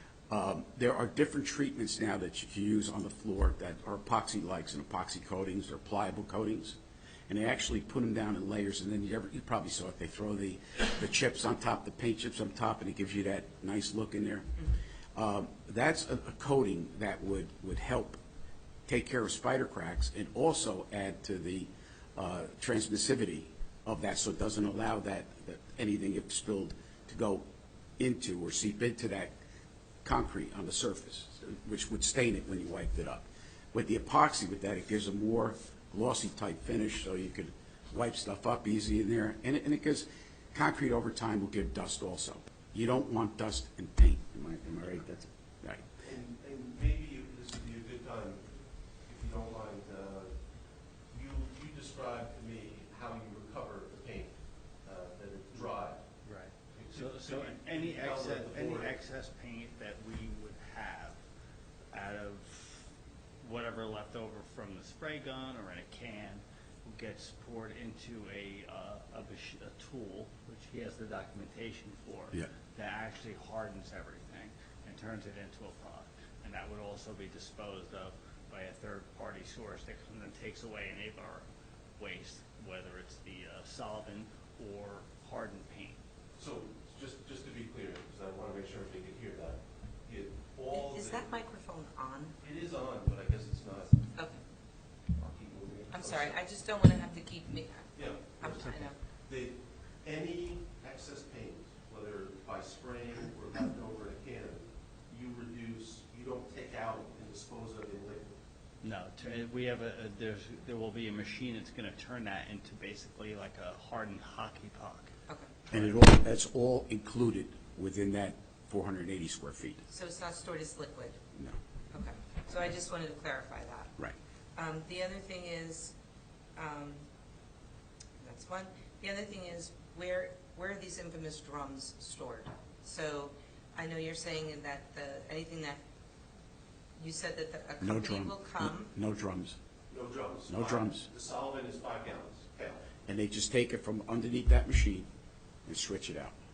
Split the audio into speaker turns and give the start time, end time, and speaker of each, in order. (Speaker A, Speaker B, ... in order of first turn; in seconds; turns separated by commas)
Speaker A: 0.3-6.8, Speaker A: 7.3-14.5, Speaker A: 15.1-18.2, Speaker A: 18.9-27.4, Speaker A: 28.0-29.3, Speaker A: 30.0-45.8, Speaker B: 46.0-48.5, Speaker B: 49.0-50.3, Speaker B: 51.1-56.0, Speaker C: 56.2-61.2, Speaker B: 56.7-59.0, Speaker C: 61.9-62.9, Speaker C: 63.4-81.4, Speaker C: 82.0-86.0, Speaker B: 86.4-91.2, Speaker D: 90.7-92.4, Speaker B: 92.4-94.0, Speaker D: 94.1-94.4, Speaker B: 95.2-96.4, Speaker D: 95.9-98.9, Speaker B: 97.9-108.4, Speaker C: 108.8-115.1, Speaker D: 115.3-115.5, Speaker A: 115.7-119.8, Speaker D: 119.9-121.2, Speaker D: 121.9-124.0, Speaker D: 124.5-125.9, Speaker D: 126.5-127.0, Speaker D: 128.2-135.8, Speaker D: 137.0-138.9, Speaker A: 137.8-139.6, Speaker B: 139.9-142.8, Speaker A: 140.5-141.1, Speaker A: 143.1-145.1, Speaker A: 145.7-146.3